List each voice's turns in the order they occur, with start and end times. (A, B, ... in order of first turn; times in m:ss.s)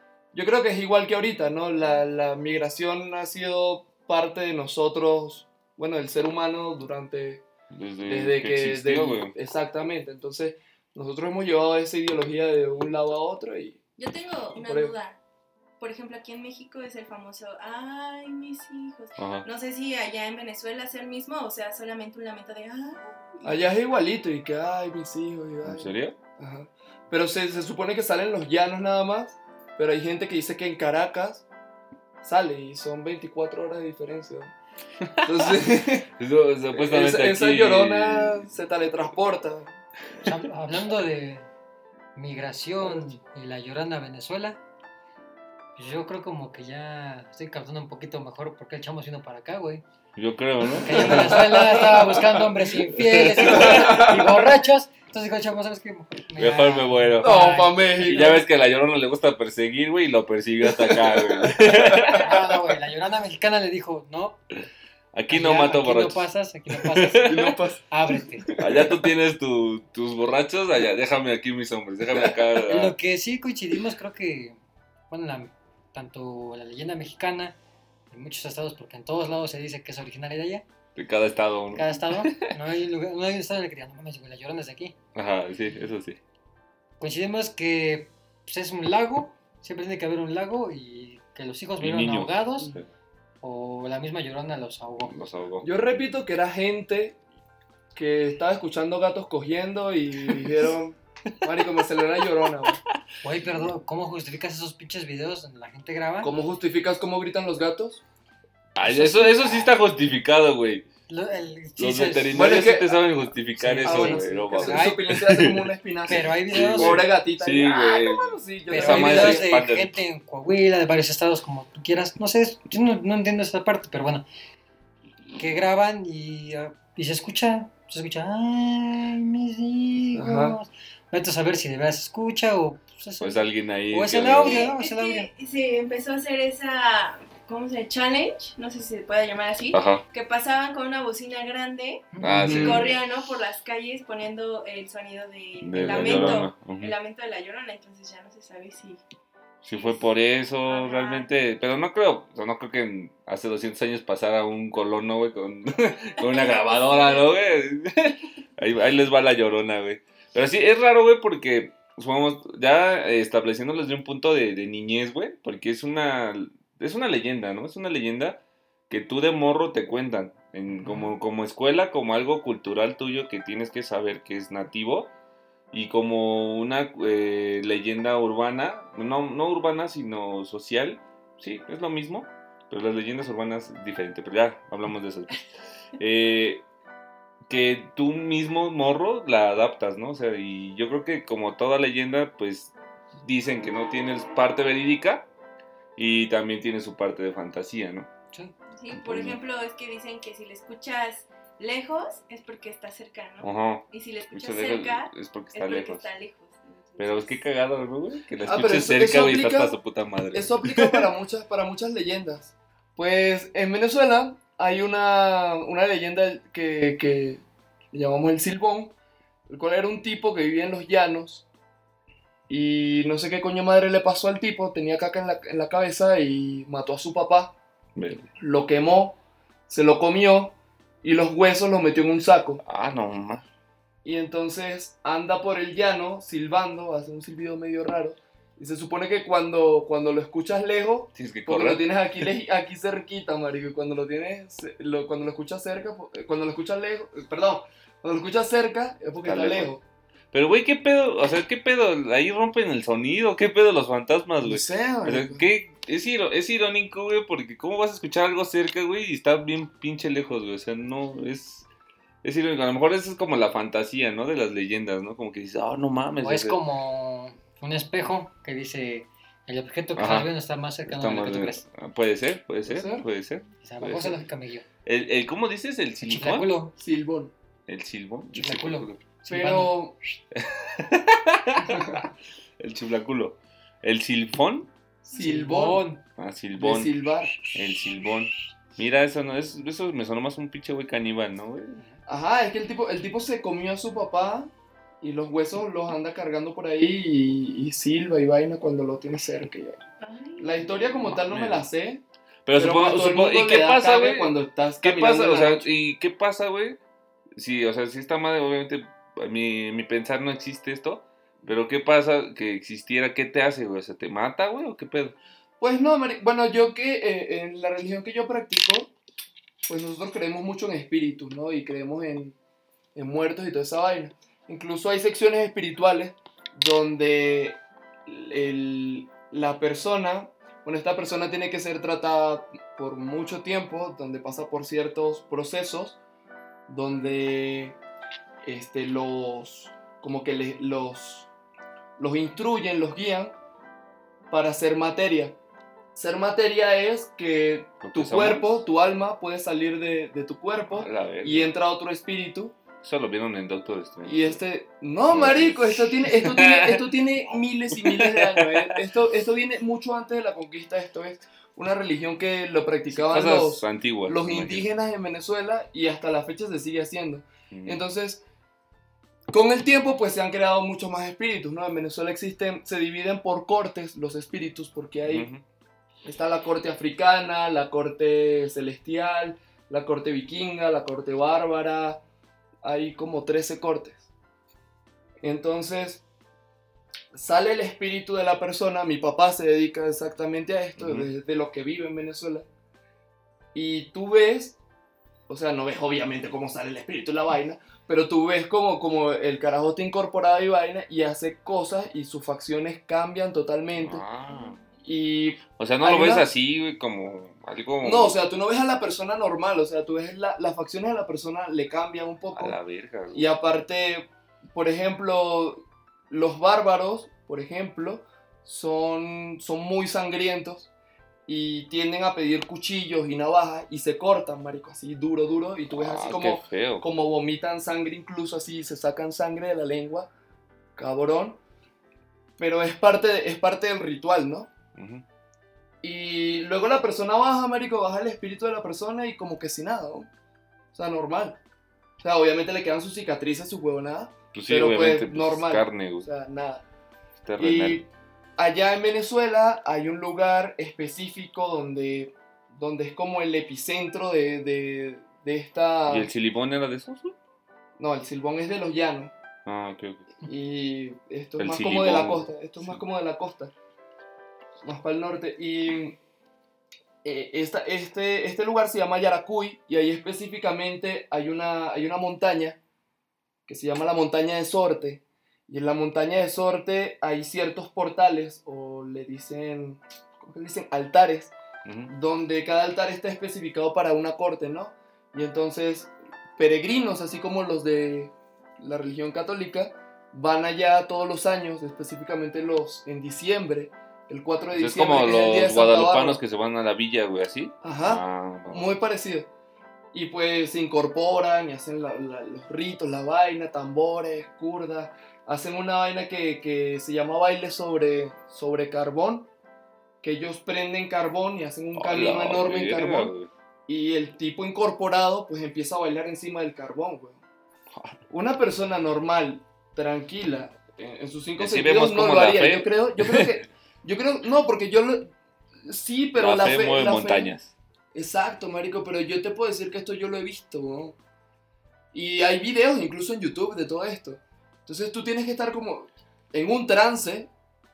0:00.3-0:07.4 A
0:07.7-0:09.3 B
0:08.0-0:13.8 A
0:14.0-0:15.2 C
0:14.6-0:14.9 A
0:15.8-0:23.6 C
0:19.2-0:19.5 B
0:23.4-0:31.4 A
0:25.6-0:26.2 B
0:32.2-0:34.5 A
0:35.2-0:35.6 B
0:35.2-0:36.1 A
0:36.2-0:38.5 B
0:36.7-0:40.2 A
0:40.2-0:41.5 D
0:42.1-0:44.6 D
0:45.8-0:49.8 D
0:50.2-0:52.0 B
0:50.8-0:58.4 D
0:50.8-0:52.4 A
0:52.9-0:54.2 B
0:53.4-0:54.4 A
0:56.4-0:57.4 B
0:57.2-0:58.4 A
0:58.0-1:02.3 B
1:00.8-1:02.2 A
1:02.1-1:04.4 D
1:05.1-1:06.3 B
1:05.3-1:08.4 D
1:06.8-1:07.6 B
1:07.2-1:07.8 A
1:08.5-1:09.0 A
1:08.6-1:13.0 B
1:12.7-1:14.6 D
1:15.1-1:17.6 D
1:18.1-1:20.6 D
1:20.9-1:22.5 B
1:21.7-1:25.0 D
1:25.1-1:26.2 B
1:27.0-1:32.8 D
1:31.8-1:32.9 B
1:33.4-1:35.1 D
1:35.1-1:35.7 B
1:35.6-1:37.2 A
1:37.9-1:42.8 A
1:43.2-1:46.3 D
1:46.2-1:48.0 A
1:48.7-1:50.9 B
1:48.8-1:49.7 D
1:51.1-1:52.6 D
1:51.8-1:59.9 B
1:52.3-1:53.0 A
1:53.6-1:55.1 D
1:53.8-1:59.5 A
1:56.1-1:57.0 D
1:58.7-2:04.2 D
2:05.4-2:15.3 D
2:10.1-2:10.6 A
2:13.2-2:14.7 B
2:14.4-2:29.0 C
2:19.7-2:20.0 B
2:22.1-2:22.4 D
2:22.2-2:23.0 B
2:22.3-2:22.8 A
2:25.6-2:26.9 B
2:25.7-2:26.4 D
2:29.6-2:55.1 B
2:29.7-2:30.1 C
2:30.6-2:31.3 C
2:36.2-2:37.3 C
2:50.7-2:51.1 D
2:55.7-3:05.4 B
3:06.0-3:06.6 B
3:07.5-3:15.3 B
3:16.0-3:18.1 B
3:18.7-3:27.4 C
3:18.9-3:19.4 B
3:23.4-3:26.1 B
3:27.0-3:31.1 B
3:28.4-3:29.8 A
3:30.3-3:38.9 A
3:39.5-3:41.4 A
3:42.5-3:47.5 A
3:48.0-3:48.3 B
3:48.4-3:49.2 A
3:49.7-3:52.6 A
3:52.6-3:53.4 B
3:54.0-4:09.8 A
4:01.1-4:02.3 B
4:09.2-4:09.7 B
4:10.3-4:21.7 B
4:14.4-4:15.4 A
4:22.2-4:26.6 B
4:26.2-4:31.6 D
4:29.9-4:30.3 B
4:30.8-4:34.2 B
4:32.6-4:33.0 A
4:33.6-4:34.6 D
4:34.8-4:36.5 B
4:36.1-4:36.7 D
4:36.8-4:37.3 A
4:37.7-4:39.5 B
4:38.3-4:39.7 D
4:39.3-4:40.0 A
4:40.3-4:42.0 B
4:41.6-4:42.0 A
4:42.6-4:44.7 B
4:45.0-4:45.8 A
4:45.1-4:46.0 D
4:46.2-4:46.9 B
4:46.6-4:47.4 A
4:47.4-4:51.8 B
4:52.1-4:59.8 A
5:00.0-5:00.9 C
5:00.4-5:02.0 A
5:01.0-5:01.7 B
5:02.4-5:06.8 B
5:02.5-5:05.7 A
5:07.4-5:15.2 B
5:15.6-5:18.9 A
5:19.6-5:22.3 A
5:22.9-5:36.0 A
5:36.7-5:37.8 A
5:38.4-5:41.3 A
5:42.0-5:43.4 A
5:44.3-5:45.4 A
5:45.9-5:52.6 A
5:47.8-5:48.6 B
5:50.7-5:51.5 B
5:52.8-5:54.4 B
5:54.0-6:08.2 A
5:55.1-5:56.8 B
5:57.8-5:58.7 B
6:02.9-6:04.7 B
6:07.5-6:07.8 B
6:09.3-6:15.3 A
6:15.0-6:15.4 B
6:16.0-6:22.0 A
6:22.6-6:24.1 A
6:25.2-6:26.0 A
6:27.1-6:32.4 A
6:30.8-6:31.1 B
6:33.5-6:34.6 A
6:35.3-6:44.0 A
6:43.7-6:44.6 B
6:44.8-6:46.3 A
6:45.6-6:48.2 B
6:47.8-6:52.6 A
6:52.3-6:53.2 B
6:53.1-7:00.7 A
7:01.3-7:10.1 A
7:05.7-7:06.8 B
7:10.8-7:11.4 A
7:12.4-7:14.5 A
7:14.7-7:15.0 B
7:15.8-7:20.1 A
7:20.7-7:21.4 A
7:22.0-7:26.6 A
7:24.3-7:26.1 B
7:27.2-7:27.8 B
7:27.4-7:36.1 A
7:35.8-7:37.2 B
7:37.8-7:39.1 A
7:39.4-7:40.1 B
7:40.2-7:43.5 A
7:41.4-7:42.8 B
7:44.6-7:46.0 A
7:47.0-7:52.6 A
7:53.5-8:01.3 A
8:01.6-8:01.9 B
8:01.9-8:16.2 A
8:14.5-8:18.8 B
8:17.6-8:19.3 A
8:19.9-8:29.3 A
8:30.0-8:33.1 A
8:31.7-8:33.3 B
8:33.7-8:37.2 A
8:38.1-8:45.1 A
8:41.4-8:43.4 B
8:45.6-8:47.3 A
8:46.2-8:47.5 B
8:47.9-8:51.0 A
8:51.9-8:57.3 A